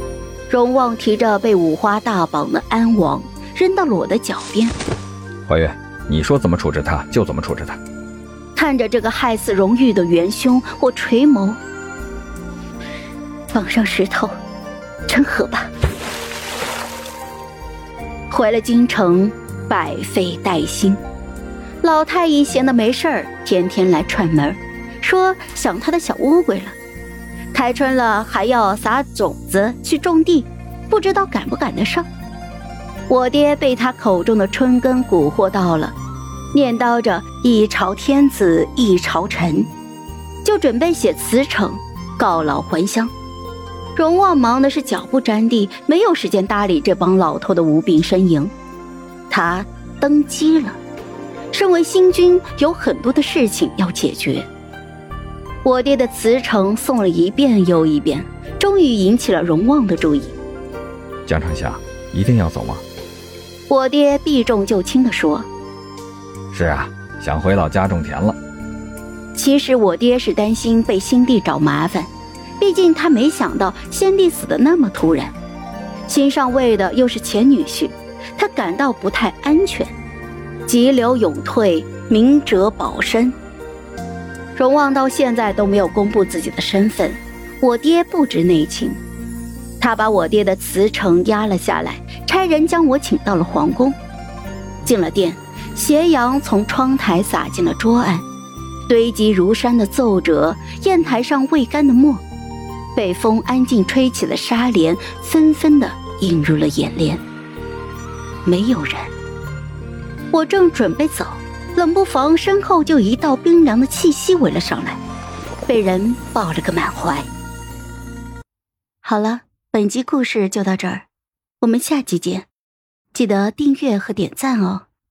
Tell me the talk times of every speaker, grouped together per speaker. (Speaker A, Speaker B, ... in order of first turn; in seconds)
Speaker A: 0.5-4.7, 8.6-11.6, 13.5-14.3, 15.1-15.7, 18.3-21.0, 21.8-26.8, 27.5-32.1, 33.1-35.9, 36.5-39.7, 40.4-43.1, 43.9-48.5, 49.3-50.8, 51.5-54.5, 55.6-60.3, 63.7-65.5, 69.3-72.1, 72.6-75.3, 76.1-79.9, 80.7-83.3, 84.5-89.0, 89.8-94.0, 94.8-98.2, 98.9-102.2, 102.9-107.2, 108.4-109.1, 110.3-115.0, 115.7-117.3, 119.0-121.0, 121.6-122.5, 123.1-124.8
Speaker B: 5.5-7.8, 61.2-62.8, 66.5-68.4